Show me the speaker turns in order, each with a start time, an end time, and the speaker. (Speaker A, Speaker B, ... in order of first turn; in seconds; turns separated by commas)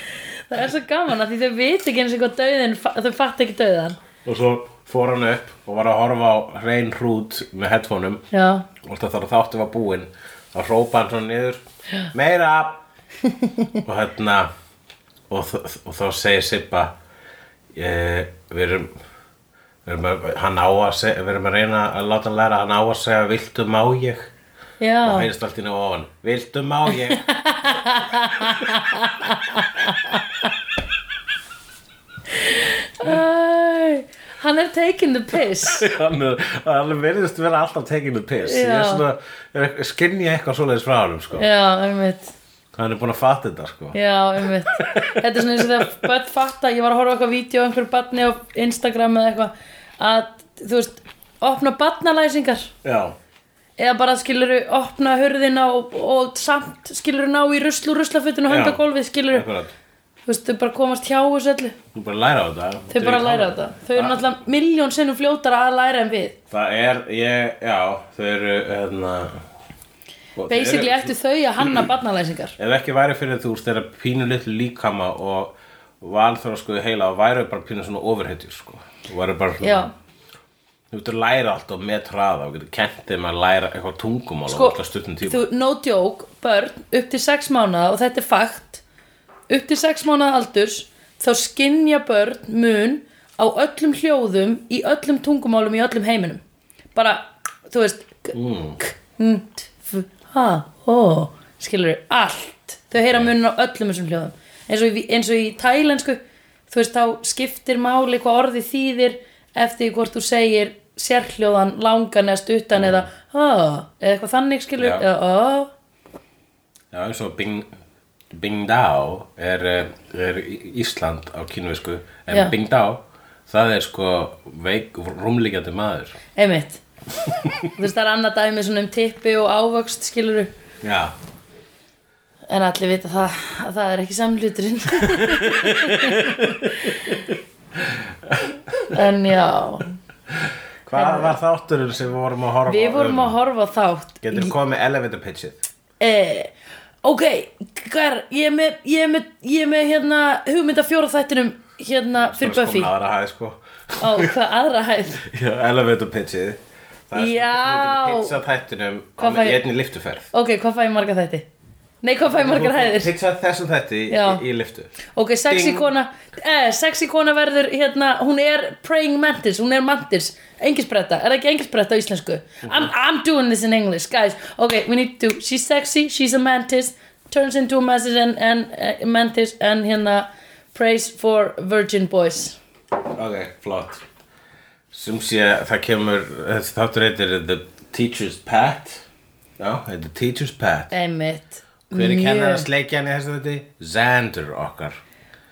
Speaker A: 0.5-4.0, Speaker B: 4.2-8.2, Speaker A: 8.3-8.7, Speaker B: 8.8-11.6, Speaker B: 12.1-12.8, Speaker A: 13.3-13.7, Speaker B: 13.8-14.5, Speaker B: 15.3-16.9, Speaker B: 17.7-18.9, Speaker B: 19.9-24.3, Speaker A: 24.8-25.3, Speaker B: 25.0-27.2, Speaker A: 27.0-30.5, Speaker A: 32.3-35.9, Speaker B: 35.6-41.5, Speaker A: 38.4-39.0, Speaker A: 41.4-42.3, Speaker B: 42.7-44.0, Speaker A: 43.9-52.7, Speaker B: 44.7-45.8, Speaker B: 52.8-53.2, Speaker A: 53.8-59.5, Speaker B: 58.5-59.7, Speaker A: 60.3-61.8, Speaker B: 61.9-64.2, Speaker A: 62.9-66.4, Speaker B: 66.5-69.4, Speaker B: 70.4-71.9, Speaker A: 70.5-72.6, Speaker B: 72.6-79.9, Speaker A: 79.6-79.9, Speaker B: 80.9-85.5, Speaker A: 84.5-88.8, Speaker A: 89.5-96.4, Speaker A: 97.0-115.7, Speaker B: 98.3-98.8, Speaker B: 112.8-113.1, Speaker B: 114.8-115.1, Speaker B: 116.9-117.7, Speaker B: 118.3-126.2, Speaker A: 126.4-126.8, Speaker B: 127.3-127.7, Speaker A: 127.7-130.5, Speaker B: 130.8-131.1, Speaker A: 132.5-137.1, Speaker B: 135.1-139.0, Speaker A: 138.9-139.9, Speaker B: 140.3-143.4, Speaker A: 140.9-141.4, Speaker A: 142.7-144.5, Speaker B: 144.2-145.6, Speaker A: 146.0-146.5, Speaker A: 147.0-152.9, Speaker B: 152.2-154.3, Speaker A: 154.0-155.2, Speaker B: 155.2-160.3, Speaker A: 157.1-158.4, Speaker A: 159.2-159.6, Speaker A: 160.3-161.5, Speaker A: 162.0-163.1, Speaker B: 162.2-164.9, Speaker A: 164.1-164.4, Speaker A: 165.1-182.6, Speaker B: 165.5-165.9, Speaker B: 183.1-184.0, Speaker B: 184.9-189.1, Speaker B: 189.6-190.9, Speaker A: 190.9-192.7, Speaker B: 191.9-195.0